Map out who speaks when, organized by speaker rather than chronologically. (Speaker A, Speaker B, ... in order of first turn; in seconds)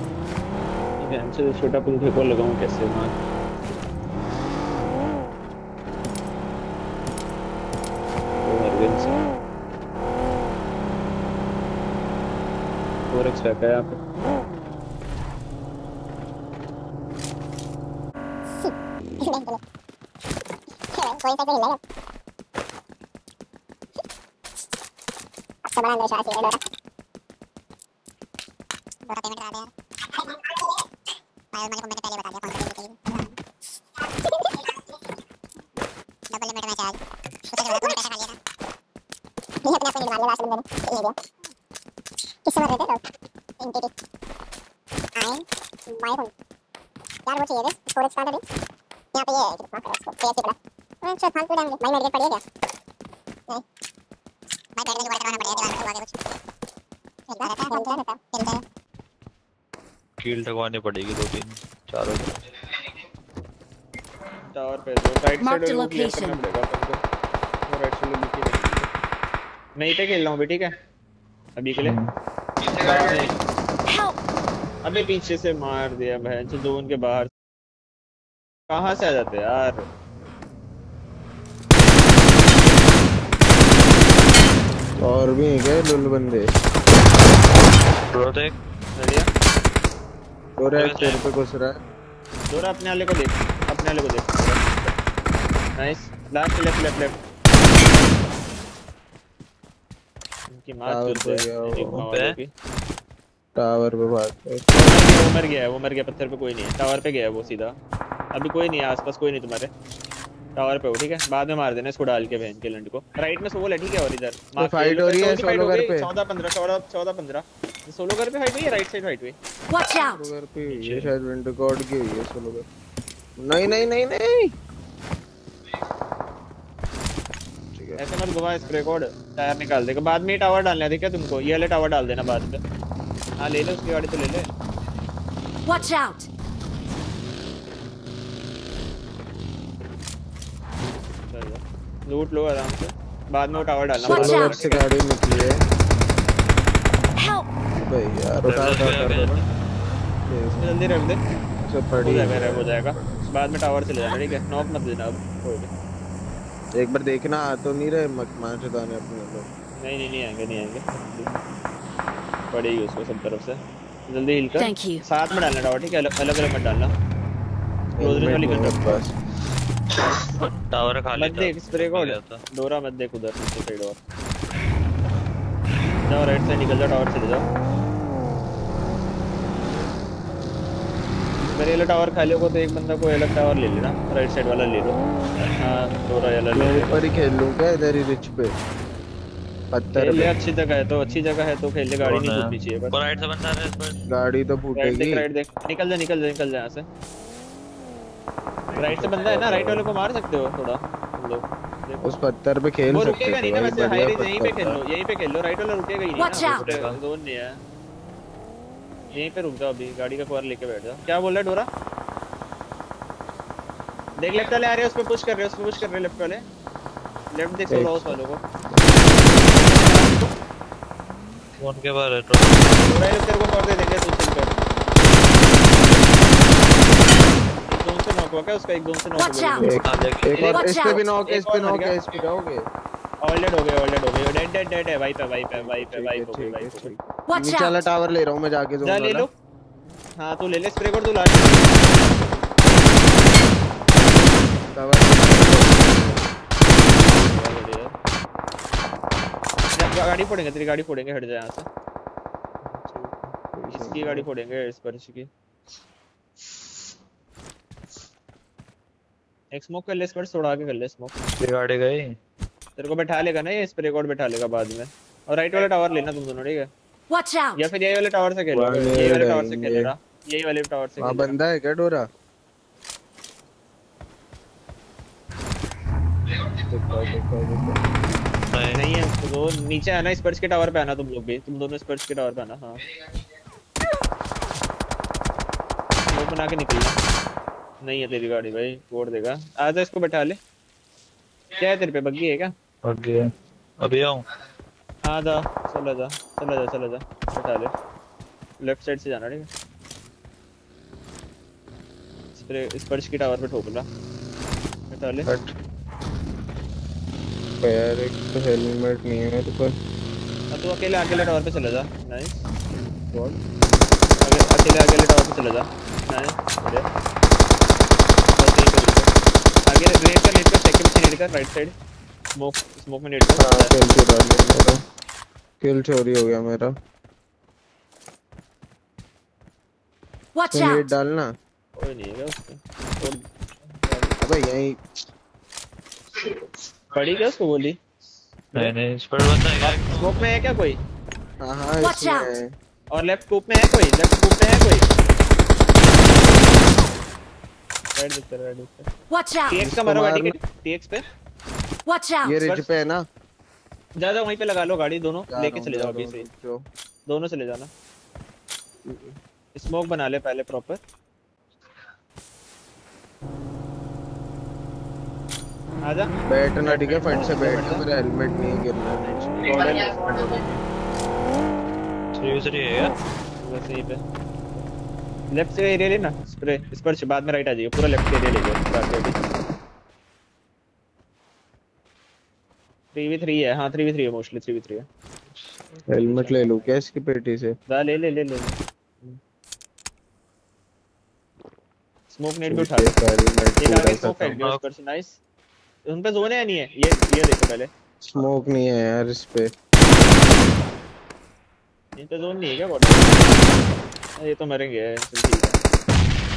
Speaker A: 1.0-3.1, 8.4-9.2, 13.1-14.0, 64.5-67.0, 67.7-68.9, 69.8-70.7, 71.6-72.0, 72.7-73.3, 74.8-77.3, 78.7-79.8, 89.0-89.3, 92.5-94.6, 95.8-97.2, 100.5-102.5, 104.8-107.8, 108.3-109.7, 110.6-119.4, 128.0-132.6, 133.4-134.5, 141.3-144.9, 150.6-151.2, 152.0-155.7, 159.8-161.3, 162.5-166.9, 168.0-169.0, 171.2-174.0, 176.0-177.5, 181.4-185.0, 185.6-187.0, 189.9-193.0, 194.8-196.9, 198.8-202.2, 202.9-207.6, 209.1-211.7, 214.2-216.4, 217.3-218.4, 219.5-220.3, 222.8-224.6, 227.7-229.8, 230.3-231.9, 233.2-236.9, 238.8-239.3, 240.2-242.0, 247.0-247.9, 249.8-251.7, 253.7-255.3, 259.5-261.1, 262.8-266.7, 267.6-271.4, 278.7-282.8, 286.1-287.0, 287.8-290.4, 291.6-292.5, 295.0-297.7, 298.6-299.5, 302.4-303.9, 304.9-305.3, 310.5-312.4, 314.2-316.9, 318.4-319.1, 319.7-321.7, 322.4-323.7, 331.8-333.2, 333.8-334.2, 336.9-337.8, 339.6-340.8, 342.9-344.9, 347.9-348.9, 349.5-351.0, 352.4-352.7, 354.0-356.3, 357.1-357.7, 359.5-360.8, 365.9-367.9, 369.4-370.6, 373.4-374.0, 375.3-379.2, 382.9-384.9, 386.0-386.7, 387.7-389.2, 392.1-392.9, 393.6-395.2, 395.9-397.7, 401.9-403.3, 404.2-405.6
Speaker B: 18.6-19.6, 20.9-21.8, 25.7-26.6, 29.1-30.6, 31.5-33.3, 34.2-34.8, 36.3-37.0, 37.5-38.4, 39.6-41.2, 42.5-43.0, 43.6-43.9, 45.1-46.3, 47.2-48.4, 49.1-52.4, 54.8-56.1, 57.3-58.6
Speaker C: 57.7-58.0, 65.4-66.4, 135.7-136.3, 164.6-165.0, 267.1-267.6, 341.9-342.2, 351.9-352.2
Speaker D: 60.2-62.4, 71.8-72.1, 88.1-88.6, 90.8-91.2, 102.1-102.4, 120.7-121.1, 148.5-149.5, 170.5-172.4, 192.0-194.0, 206.4-207.0, 221.6-222.8, 229.7-230.5, 261.4-262.1, 278.5-278.8, 292.8-293.2, 293.8-294.2, 338.5-340.3, 372.1-372.9, 394.2-394.6
Speaker E: 85.0-86.5, 90.6-91.8, 100.8-102.0, 103.6-104.7, 114.6-116.1, 119.9-122.7, 123.4-124.5, 127.7-128.0, 144.0-145.6, 147.8-149.5, 150.3-150.7, 151.7-153.3, 156.8-159.5, 168.0-169.1, 186.5-188.5, 189.7-190.3, 194.1-195.2, 198.8-199.9, 202.0-204.8, 217.7-218.2, 229.6-232.6, 235.6-239.3, 244.7-246.3, 252.8-254.3, 268.5-269.9, 271.0-272.1, 276.7-277.8, 305.2-305.5, 307.6-309.7, 313.1-313.4, 323.4-324.8, 325.6-326.7, 330.5-331.3, 334.2-334.8, 341.4-342.5, 349.6-350.4, 352.2-353.0, 355.3-356.6, 358.9-359.1, 366.3-370.5, 385.9-387.6, 392.5-394.3, 398.0-399.5